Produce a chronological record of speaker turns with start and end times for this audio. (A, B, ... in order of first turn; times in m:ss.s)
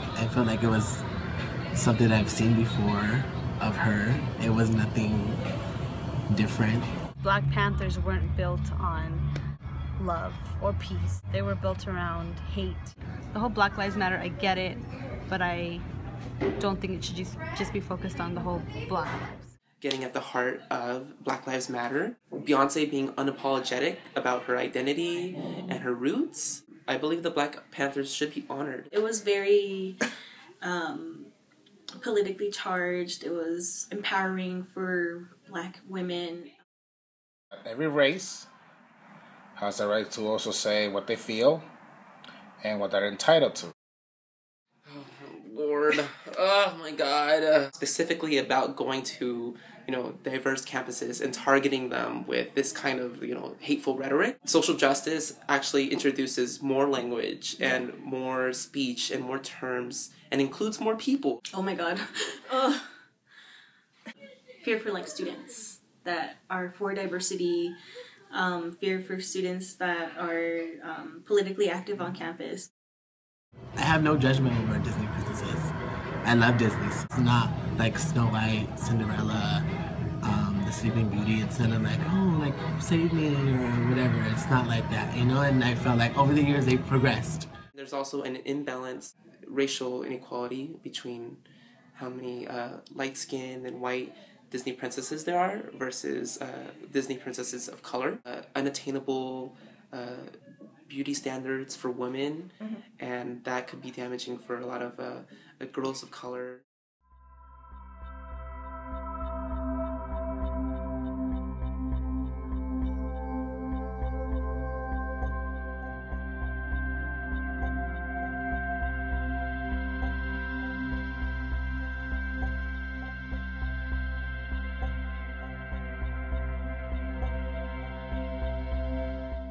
0:00.2-0:01.0 A
0:01.7-0:05.4 A
0:06.3-0:06.9 A
0:07.2-0:09.2 B
0:10.0-0:15.8 B
0:16.6-0:19.5 B
0:19.8-0:28.9 C
0:28.9-0:30.0 D
0:30.6-0:31.3 D
0:32.0-0:36.6 D
0:37.5-0:38.5 E
0:39.6-0:41.6 E
0:42.6-0:43.7 E
0:44.9-1:01.4 C
1:01.5-1:02.9 D
1:04.6-1:07.8 D
1:08.3-1:12.7 D
1:13.8-1:19.7 A
1:20.2-1:27.5 A
1:27.7-1:31.4 C
1:31.9-1:40.3 C
1:40.9-1:46.6 C